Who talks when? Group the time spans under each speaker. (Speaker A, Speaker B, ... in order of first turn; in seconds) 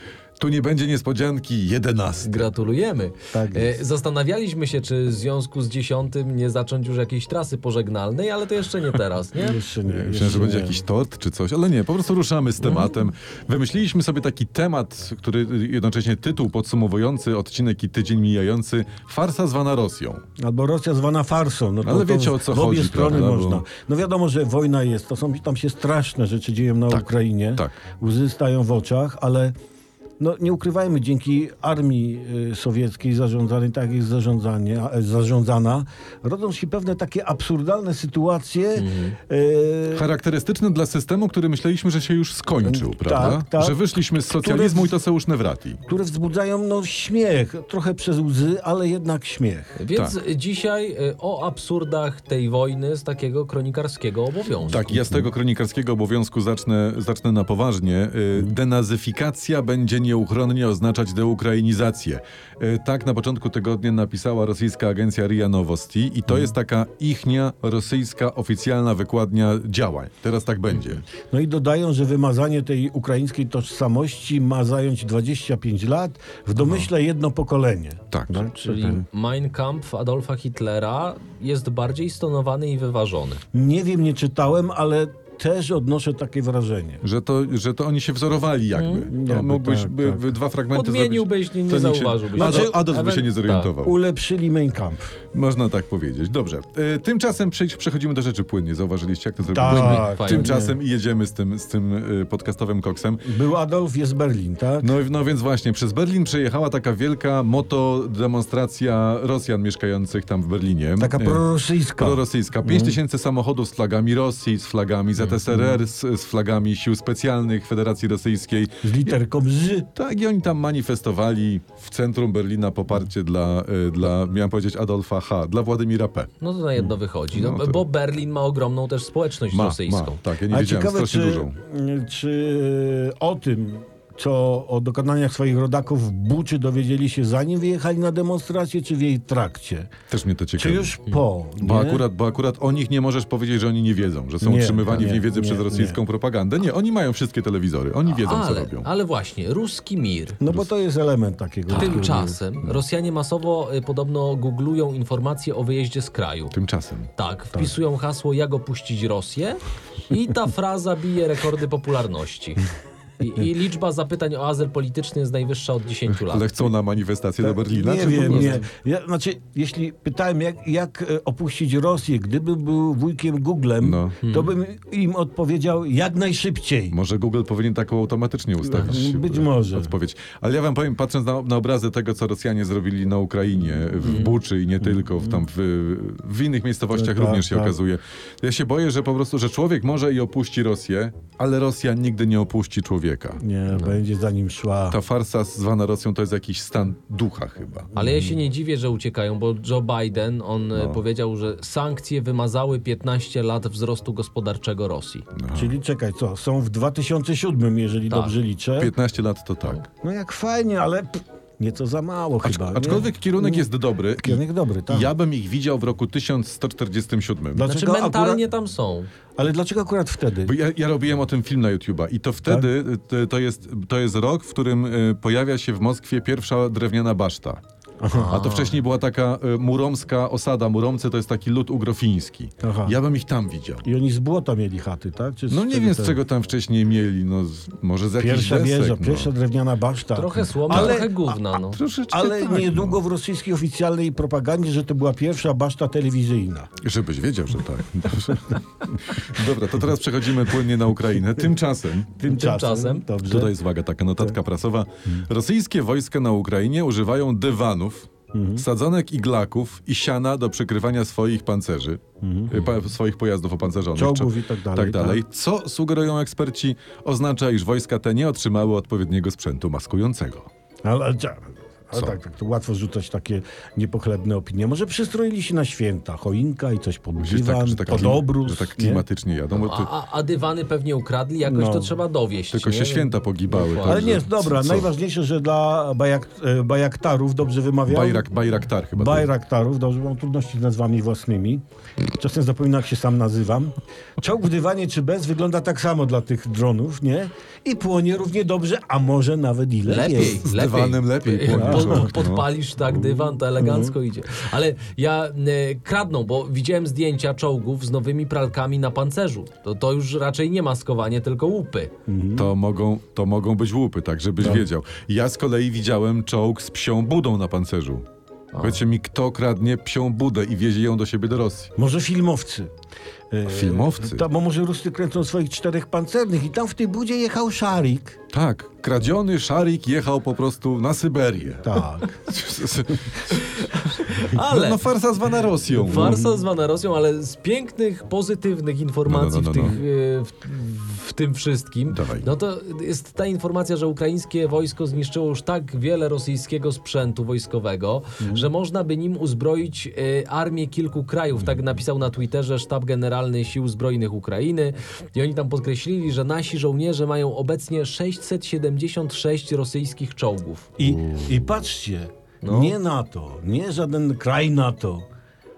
Speaker A: 0.4-2.5, 9.9-20.2, 21.8-23.6, 26.9-27.8, 39.9-45.8, 54.7-71.0, 76.6-76.9, 78.1-78.5, 87.0-94.0, 95.3-103.2, 104.8-111.4, 112.0-119.2, 120.0-126.3, 127.3-127.8, 129.5-131.6, 140.1-141.0, 141.6-148.9, 156.5-157.1, 166.1-168.6, 173.8-174.2, 176.9-193.4, 194.9-197.9, 200.7-201.0, 205.3-205.8, 208.8-209.8, 212.4-217.7, 220.4-227.6, 228.2-233.8, 235.5-239.3, 240.7-241.1, 241.6-243.0, 246.8-252.1, 253.2-270.5, 277.2-279.9, 282.5-284.9, 287.9-289.3, 299.9-302.5, 312.4-318.1, 318.6-321.7, 323.5-324.2, 328.3-336.2, 339.1-339.8, 341.9-342.3, 360.8-361.3
Speaker B: 2.2-9.6, 12.6-12.9, 38.8-39.2, 49.8-54.8, 78.5-83.4, 88.8-89.1, 90.7-93.7, 99.7-100.5, 126.4-130.2, 148.1-150.4, 151.7-156.5, 157.2-162.7, 163.2-166.6, 168.1-168.7, 174.2-174.5, 184.0-184.3, 198.0-205.3, 208.1-208.3, 217.6-219.1, 228.1-228.8, 240.2-241.8, 252.2-253.1, 279.5-284.2, 299.9-311.9, 318.5-318.8, 333.9-334.9, 335.7-360.7, 362.4-362.8
Speaker C: 3.3-3.8, 9.3-10.8, 20.4-29.5, 30.2-40.1, 42.6-43.8, 44.3-44.9, 45.9-49.8, 54.8-55.2, 71.3-79.0, 83.5-87.0, 89.1-90.3, 92.4-92.8, 93.8-95.1, 99.5-100.8, 103.2-104.9, 111.0-113.0, 118.8-119.9, 130.5-139.9, 140.6-142.1, 144.4-146.0, 150.4-152.4, 167.4-177.0, 178.6-179.9, 184.8-185.4, 186.9-187.8, 193.4-195.0, 197.9-198.3, 205.5-208.9, 210.0-215.1, 217.6-218.4, 219.4-220.5, 228.0-228.4, 232.6-233.0, 233.8-236.2, 238.2-241.4, 242.1-246.7, 252.2-253.5, 258.3-258.7, 262.2-262.6, 263.9-265.2, 270.8-279.0, 281.4-281.9, 283.9-288.3, 289.0-291.6, 292.1-300.4, 301.5-302.1, 302.9-303.9, 312.1-312.5, 314.4-314.7, 321.8-322.7, 323.3-328.2, 331.6-332.2, 335.9-336.4, 360.8-365.1